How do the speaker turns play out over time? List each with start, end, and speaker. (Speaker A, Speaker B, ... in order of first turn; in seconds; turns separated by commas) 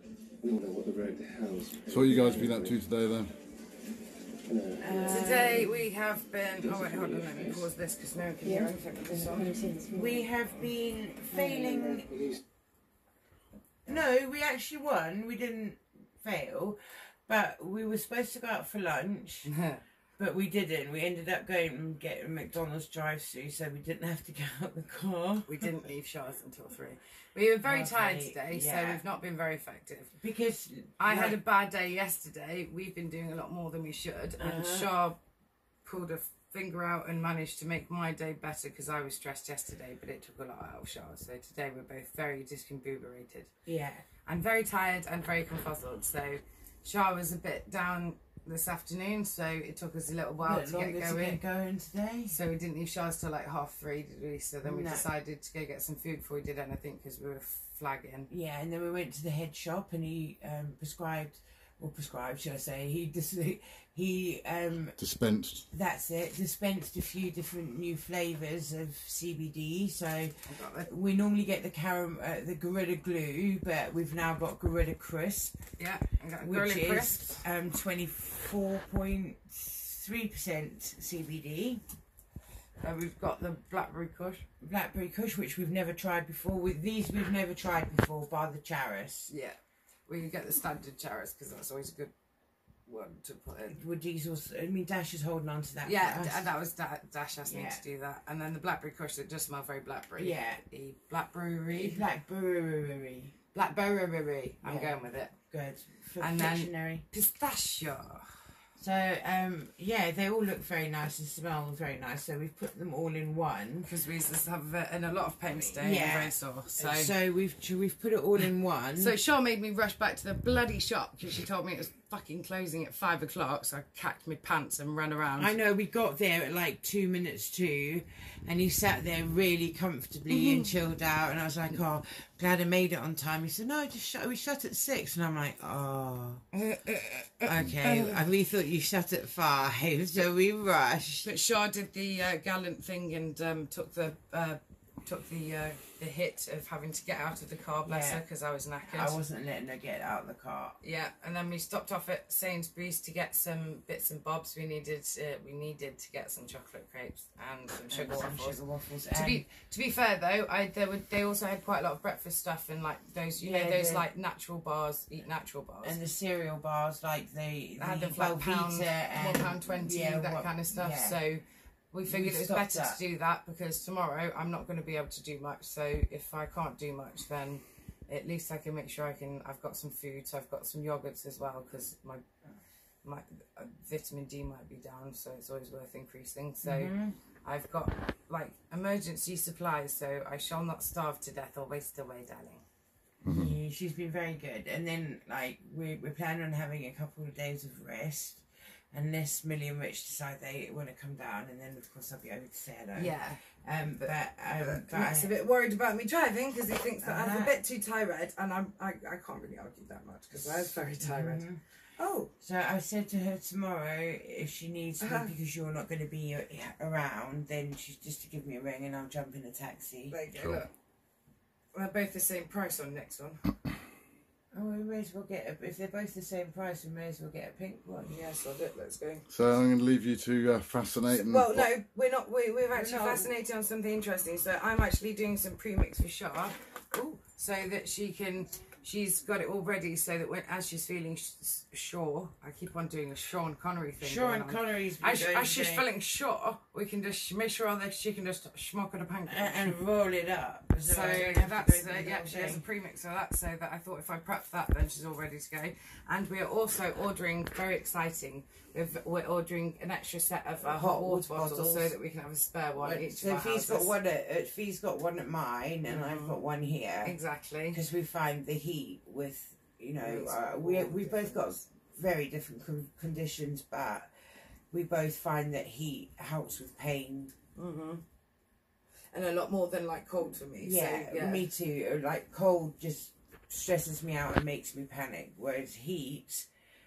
Speaker A: 0.4-2.8, Speaker B: 1.9-3.3, Speaker A: 4.5-5.5, Speaker C: 4.8-5.7, Speaker D: 5.1-9.6, Speaker A: 6.7-7.4, Speaker A: 9.3-10.2, Speaker C: 9.9-12.2, Speaker A: 11.7-12.3, Speaker C: 13.9-19.5, Speaker D: 19.5-19.8, Speaker C: 20.2-25.7, Speaker D: 25.5-30.1, Speaker C: 27.6-29.0, Speaker C: 30.2-31.4, Speaker D: 31.0-35.2, Speaker C: 34.4-34.9, Speaker D: 35.9-43.5, Speaker C: 43.7-44.0, Speaker D: 44.3-51.4, Speaker C: 50.4-52.4, Speaker D: 52.3-58.3, Speaker C: 54.6-55.1, Speaker C: 58.3-65.0, Speaker B: 65.0-65.6, Speaker C: 65.7-70.3, Speaker D: 70.5-70.9, Speaker C: 70.8-75.6, Speaker D: 75.8-77.4, Speaker C: 76.4-81.8, Speaker D: 82.8-84.5, Speaker C: 84.6-89.3, Speaker D: 89.3-92.1, Speaker D: 92.9-93.8, Speaker C: 93.7-96.5, Speaker D: 95.8-102.0, Speaker C: 97.5-97.8, Speaker C: 100.2-100.6, Speaker C: 101.7-103.3, Speaker D: 103.5-105.3, Speaker C: 104.6-105.0, Speaker C: 105.5-107.0, Speaker D: 106.2-108.4, Speaker C: 108.8-113.9, Speaker D: 113.8-117.2, Speaker C: 115.5-119.2, Speaker D: 119.0-125.6, Speaker C: 125.4-136.4, Speaker D: 130.3-130.7, Speaker D: 136.5-138.2, Speaker C: 137.5-141.3, Speaker D: 141.2-149.2, Speaker C: 147.9-148.2, Speaker C: 148.9-150.8, Speaker D: 150.8-158.6, Speaker C: 157.9-159.5, Speaker D: 159.1-166.0, Speaker C: 163.4-164.1, Speaker C: 165.8-171.2, Speaker D: 167.8-182.2, Speaker C: 172.1-173.0, Speaker D: 183.0-186.9, Speaker C: 186.6-187.2, Speaker D: 187.4-192.6, Speaker B: 193.2-193.5, Speaker C: 193.3-205.3, Speaker D: 203.0-203.4, Speaker D: 204.0-211.4, Speaker C: 207.0-207.6, Speaker C: 210.3-211.6, Speaker D: 212.0-212.3, Speaker C: 212.4-220.2, Speaker D: 215.0-215.3, Speaker D: 220.1-220.7, Speaker D: 221.7-223.4, Speaker C: 224.5-228.1, Speaker D: 228.1-229.2, Speaker B: 229.3-231.7, Speaker D: 231.1-249.8, Speaker C: 232.7-233.3, Speaker C: 244.0-245.9, Speaker C: 249.3-252.6, Speaker D: 250.8-263.9, Speaker C: 260.6-261.9, Speaker C: 262.8-267.2, Speaker D: 265.9-266.4, Speaker D: 267.0-267.8, Speaker C: 267.7-274.1, Speaker D: 270.0-271.6, Speaker C: 274.7-277.3, Speaker D: 277.6-278.0, Speaker D: 279.1-281.5, Speaker C: 280.6-286.5